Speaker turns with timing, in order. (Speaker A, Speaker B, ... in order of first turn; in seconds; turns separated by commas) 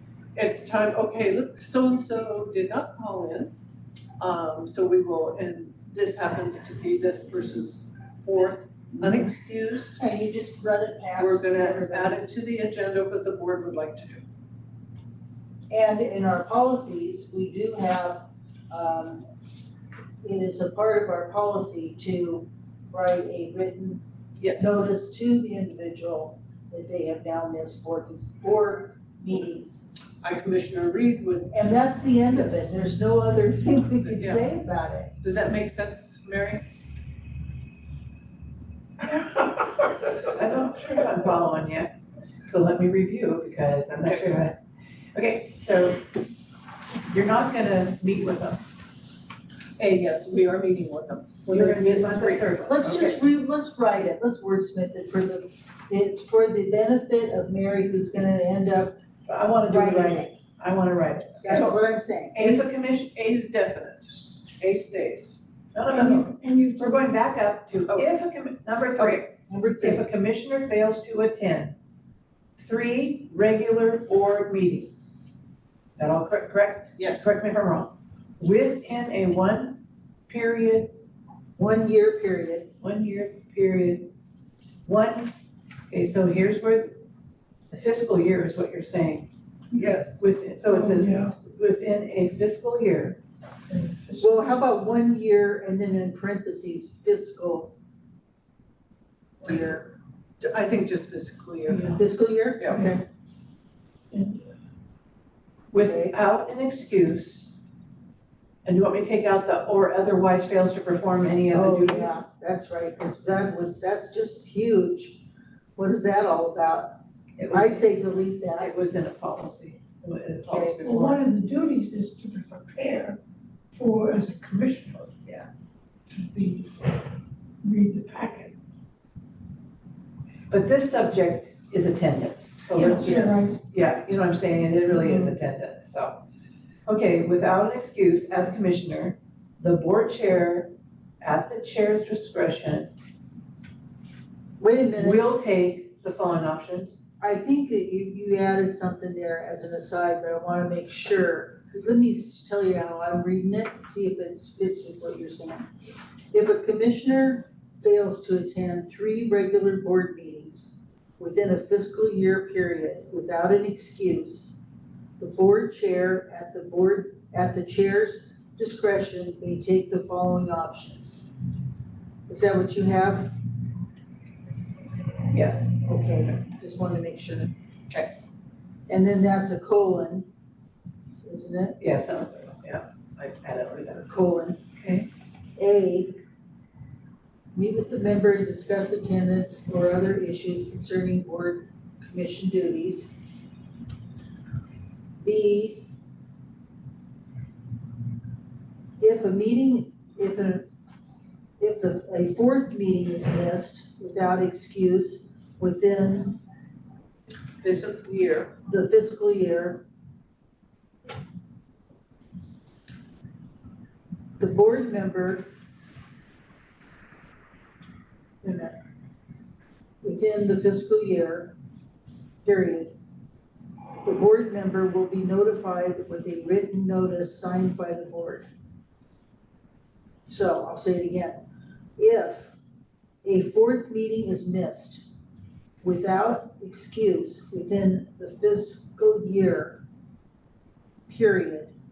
Speaker A: 0.3-3.5, Speaker A: 4.2-10.0, Speaker B: 10.0-12.2, Speaker A: 11.2-14.2, Speaker B: 15.7-19.3, Speaker B: 20.2-24.0, Speaker A: 24.4-24.9, Speaker B: 24.6-29.9, Speaker A: 30.2-32.7, Speaker B: 31.5-35.1, Speaker A: 34.1-34.5, Speaker A: 35.2-36.6, Speaker C: 40.2-42.0, Speaker C: 42.5-44.6, Speaker C: 45.1-46.1, Speaker C: 47.1-48.6, Speaker A: 49.8-53.2, Speaker C: 51.5-53.1, Speaker B: 52.7-59.0, Speaker C: 59.3-61.8, Speaker B: 59.6-60.3, Speaker B: 61.4-62.4, Speaker A: 62.4-65.4, Speaker C: 62.4-63.1, Speaker C: 65.7-71.8, Speaker D: 65.9-67.2, Speaker A: 69.0-69.2, Speaker B: 69.5-70.0, Speaker C: 72.6-74.9, Speaker C: 76.0-80.9, Speaker A: 77.0-77.3, Speaker B: 81.6-82.7, Speaker C: 82.8-84.1, Speaker C: 84.8-85.3, Speaker C: 85.9-87.0, Speaker C: 87.7-89.3, Speaker A: 89.7-90.3, Speaker C: 90.2-93.2, Speaker D: 90.7-91.3, Speaker D: 93.7-94.6, Speaker B: 94.2-97.8, Speaker B: 99.4-99.9, Speaker A: 100.4-102.0, Speaker D: 101.7-102.0, Speaker B: 101.9-103.0, Speaker A: 102.6-102.9, Speaker D: 102.7-103.0, Speaker D: 104.1-104.4, Speaker C: 105.7-107.5, Speaker B: 105.8-106.2, Speaker C: 108.7-112.1, Speaker B: 111.5-115.2, Speaker B: 115.8-116.9, Speaker C: 117.4-117.9, Speaker B: 117.5-118.7, Speaker C: 118.6-121.3, Speaker B: 120.5-120.8, Speaker D: 120.8-123.2, Speaker D: 123.7-125.3, Speaker D: 126.1-127.1, Speaker D: 127.6-128.6, Speaker C: 130.5-136.2, Speaker D: 132.8-133.6, Speaker C: 136.9-142.9, Speaker B: 144.6-145.2, Speaker C: 145.0-147.0, Speaker B: 147.2-155.7, Speaker B: 156.3-164.6, Speaker B: 165.2-171.2, Speaker B: 172.3-173.3, Speaker C: 175.3-175.8, Speaker B: 175.8-177.5, Speaker B: 178.9-180.3, Speaker B: 181.2-181.8, Speaker C: 181.8-184.1, Speaker B: 184.1-184.6, Speaker C: 184.8-185.1, Speaker B: 185.6-186.2, Speaker B: 187.5-193.1, Speaker B: 195.2-195.9, Speaker B: 199.0-200.7, Speaker B: 201.6-206.4, Speaker A: 207.6-208.5, Speaker B: 208.7-209.8, Speaker B: 214.4-215.5, Speaker B: 218.4-218.8, Speaker B: 220.0-221.6, Speaker B: 222.4-222.9, Speaker B: 224.0-228.5, Speaker B: 230.3-231.4, Speaker B: 232.0-232.5, Speaker B: 233.2-235.1, Speaker B: 235.8-239.8, Speaker B: 241.1-241.7